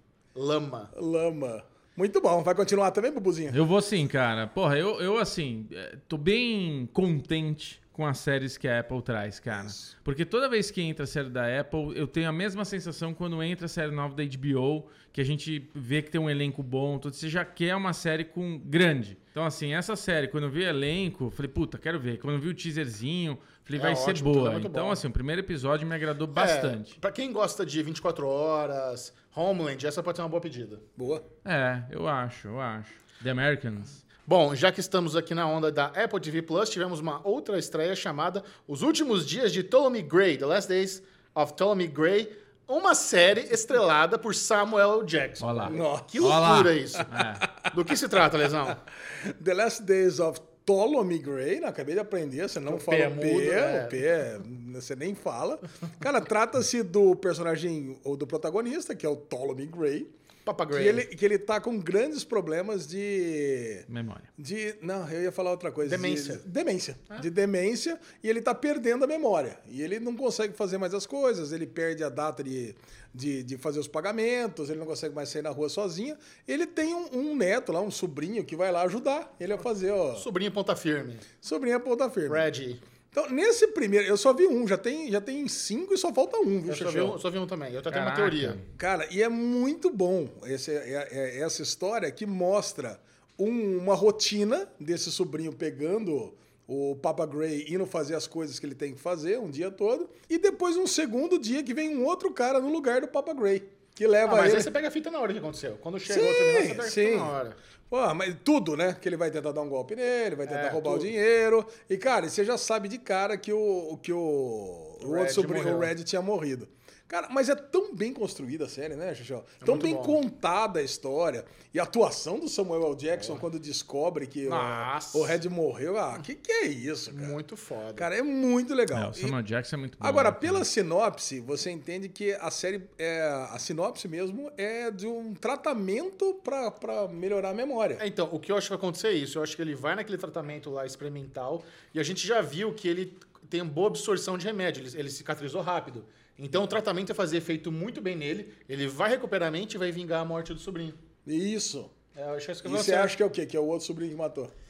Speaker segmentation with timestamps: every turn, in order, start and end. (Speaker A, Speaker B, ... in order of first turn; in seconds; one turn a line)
Speaker A: 0.3-0.9
Speaker B: 0.9-3.6
Speaker C: 3.5-26.9
Speaker B: 9.5-9.9
Speaker A: 23.7-25.0
Speaker A: 26.3-30.8
Speaker B: 31.0-31.2
Speaker C: 31.4-34.0
Speaker A: 34.2-47.1
Speaker C: 45.4-47.5
Speaker B: 45.7-47.7
Speaker A: 47.6-48.8
Speaker B: 49.1-60.1
Speaker A: 52.7-54.0
Speaker A: 60.4-61.0
Speaker B: 60.7-63.9
Speaker C: 63.9-64.3
Speaker B: 64.4-80.2
Speaker A: 65.8-66.4
Speaker A: 80.2-81.2
Speaker B: 81.4-82.5
Speaker A: 82.3-82.8
Speaker B: 83.1-87.2
Speaker A: 86.7-88.6
Speaker C: 87.9-88.6
Speaker B: 88.8-104.7
Speaker A: 104.2-107.6
Speaker B: 106.1-107.3
Speaker B: 107.9-127.4
Speaker A: 110.5-111.1
Speaker A: 115.0-115.9
Speaker A: 119.6-120.2
Speaker A: 124.5-125.4
Speaker A: 127.1-128.1
Speaker B: 128.0-129.3
Speaker C: 128.9-130.6
Speaker B: 130.0-138.0
Speaker A: 138.0-151.0
Speaker B: 151.2-151.9
Speaker A: 152.1-153.2
Speaker B: 152.6-154.5